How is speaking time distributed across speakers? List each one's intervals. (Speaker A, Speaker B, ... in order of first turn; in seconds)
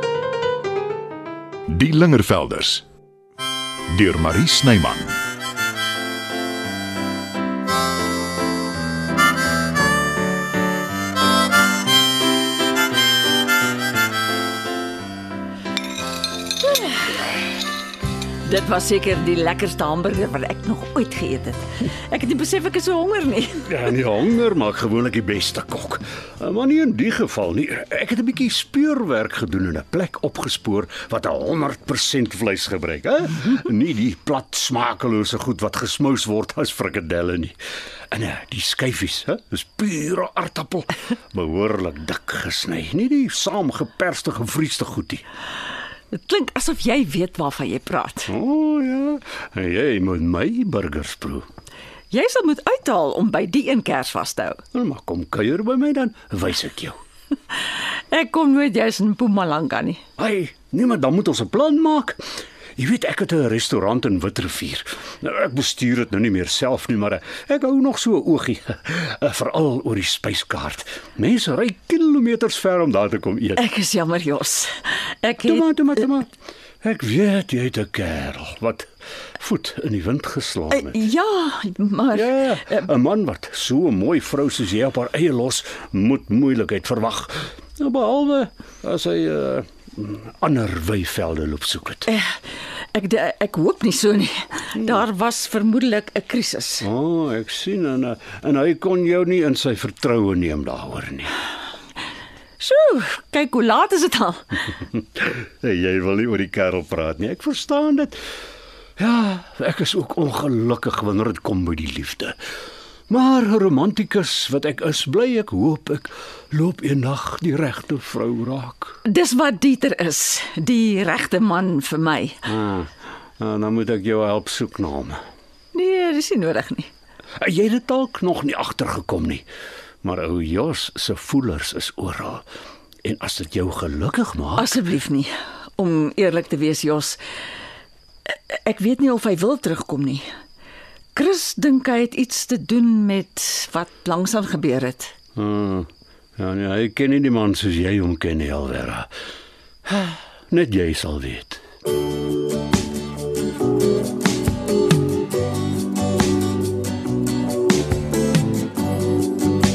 Speaker A: 1.7-2.9, 3.9-5.1
Speaker B: 16.7-16.9, 18.4-23.7, 46.1-48.3, 52.1-54.6, 57.7-60.0, 73.6-75.7, 80.7-82.8, 92.1-92.4, 92.9-96.9, 102.6-104.6, 119.0-122.4, 125.7-126.9, 134.6-137.2, 138.3-140.3, 141.1-145.1
Speaker C: 23.7-37.5, 38.1-45.2, 48.4-51.4, 54.8-57.0, 60.2-62.1, 62.8-73.5, 75.5-76.2, 76.8-78.8, 79.4-80.9, 82.2-92.0, 96.9-101.2, 105.7-108.1, 109.0-112.3, 113.1-118.7, 123.4-125.2, 127.4-129.4, 130.0-132.4, 133.0-134.7, 145.4-145.8, 146.4-149.0, 149.9-151.6